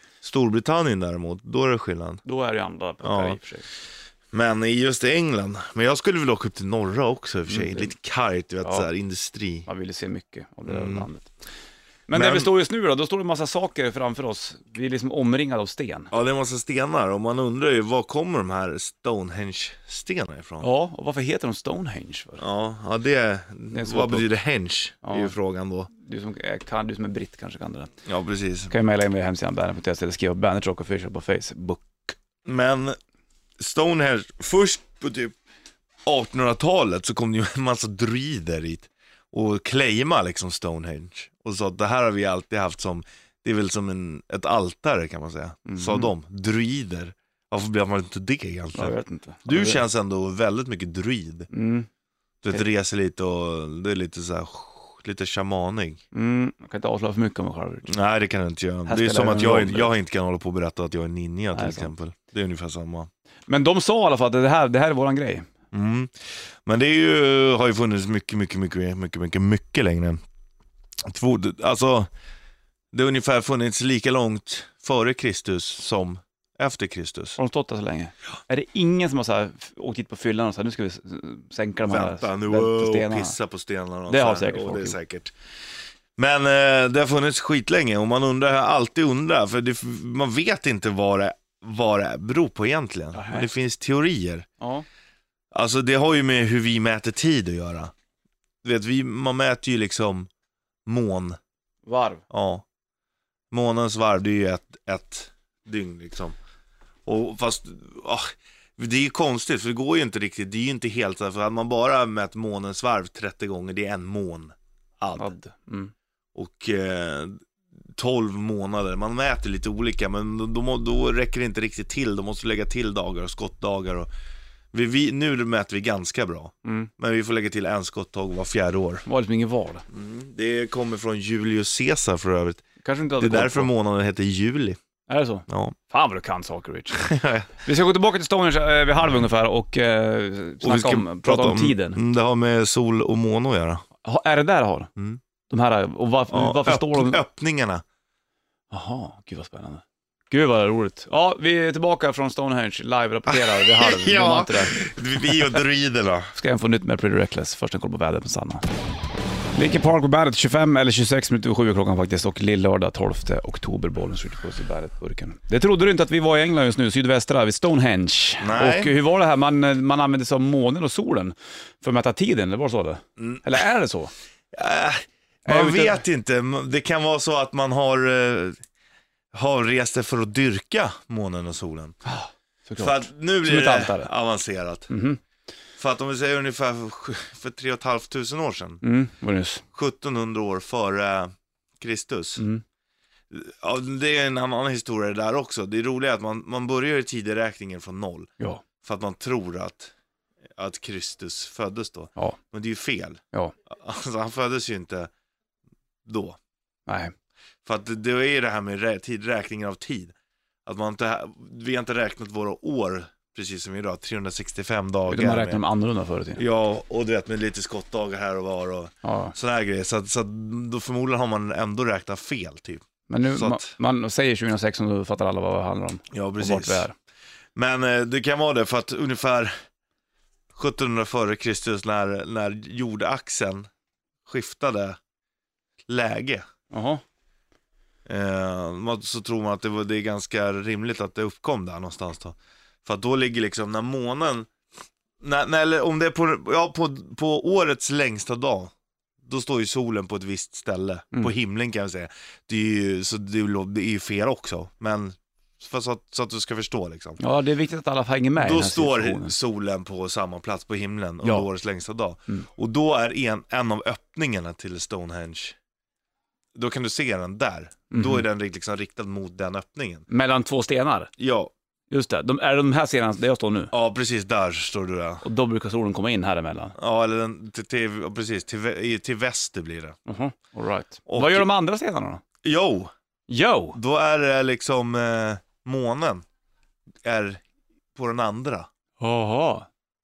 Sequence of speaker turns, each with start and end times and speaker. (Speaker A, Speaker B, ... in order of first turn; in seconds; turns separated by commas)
Speaker A: 0.2-2.2, Speaker B: 2.2-3.7, Speaker A: 3.0-3.4, Speaker A: 4.3-9.7, Speaker B: 7.5-7.9, Speaker B: 9.7-11.3, Speaker A: 10.7-11.1, Speaker B: 12.1-16.1, Speaker A: 12.1-12.5, Speaker A: 16.1-20.7, Speaker B: 20.6-22.4, Speaker A: 22.4-25.9, Speaker B: 23.7-24.3, Speaker B: 25.0-25.3, Speaker B: 25.9-27.9, Speaker A: 28.1-28.7, Speaker B: 28.7-32.1, Speaker A: 32.5-33.0, Speaker A: 33.6-35.3, Speaker A: 36.1-51.5, Speaker B: 45.7-46.1, Speaker B: 48.8-49.8, Speaker B: 51.5-51.9, Speaker A: 52.4-56.0, Speaker B: 56.1-57.9, Speaker A: 57.9-63.1, Speaker B: 58.9-59.9, Speaker B: 61.5-61.9, Speaker B: 63.5-65.5, Speaker A: 65.7-70.2, Speaker A: 71.1-72.1, Speaker A: 72.9-77.4, Speaker B: 77.4-83.4, Speaker A: 81.9-85.3, Speaker B: 84.1-85.0, Speaker A: 86.2-94.5, Speaker B: 93.1-93.5, Speaker B: 94.6-94.9, Speaker A: 95.5-97.9, Speaker A: 98.6-100.3, Speaker A: 100.9-101.4, Speaker B: 101.8-102.2, Speaker A: 102.3-102.7, Speaker A: 103.5-106.4, Speaker A: 107.1-115.3, Speaker B: 115.2-115.9, Speaker A: 116.3-117.4, Speaker A: 118.0-124.1, Speaker A: 124.7-129.1, Speaker B: 126.7-126.9, Speaker B: 129.1-129.8, Speaker A: 129.9-132.6, Speaker B: 132.8-133.7, Speaker A: 133.2-134.8, Speaker B: 135.1-137.1, Speaker A: 135.5-135.8, Speaker A: 136.9-137.5, Speaker B: 137.6-142.0, Speaker A: 140.6-143.8, Speaker B: 144.0-144.9, Speaker B: 145.5-147.2, Speaker A: 146.3-147.8, Speaker B: 148.7-155.6, Speaker A: 153.3-156.3, Speaker B: 156.3-158.7, Speaker B: 159.5-174.1, Speaker A: 168.4-169.0, Speaker A: 173.2-173.5, Speaker A: 174.5-178.6, Speaker B: 175.5-176.0, Speaker A: 179.3-182.0, Speaker B: 182.1-184.1, Speaker A: 182.8-184.9, Speaker B: 184.9-185.2, Speaker A: 185.8-188.8, Speaker B: 188.8-189.6, Speaker A: 189.7-192.4, Speaker B: 192.4-192.6, Speaker A: 193.3-198.3, Speaker A: 198.8-199.9, Speaker A: 200.6-205.1, Speaker A: 206.1-206.4, Speaker B: 206.9-207.1, Speaker A: 207.7-210.1, Speaker A: 210.7-215.6, Speaker B: 215.1-216.4, Speaker A: 216.4-223.7, Speaker B: 219.0-219.3, Speaker B: 223.1-226.9, Speaker A: 226.1-226.9, Speaker A: 227.6-229.5, Speaker A: 230.6-233.7, Speaker A: 234.3-235.0, Speaker A: 235.9-236.4, Speaker B: 236.7-237.0, Speaker A: 238.1-244.5, Speaker A: 245.2-248.7, Speaker A: 249.2-257.2, Speaker B: 257.2-259.4, Speaker A: 258.4-265.6, Speaker B: 261.2-261.5, Speaker A: 266.6-270.1, Speaker B: 267.9-268.2, Speaker B: 270.1-271.1, Speaker A: 271.2-271.5, Speaker B: 271.9-273.7, Speaker A: 273.7-275.2, Speaker B: 275.2-276.8, Speaker A: 276.8-280.0, Speaker B: 280.1-282.2, Speaker A: 281.1-281.5, Speaker A: 282.4-282.9, Speaker B: 283.3-283.8, Speaker A: 283.7-286.2, Speaker A: 287.0-287.4, Speaker A: 287.9-288.7, Speaker B: 289.0-289.7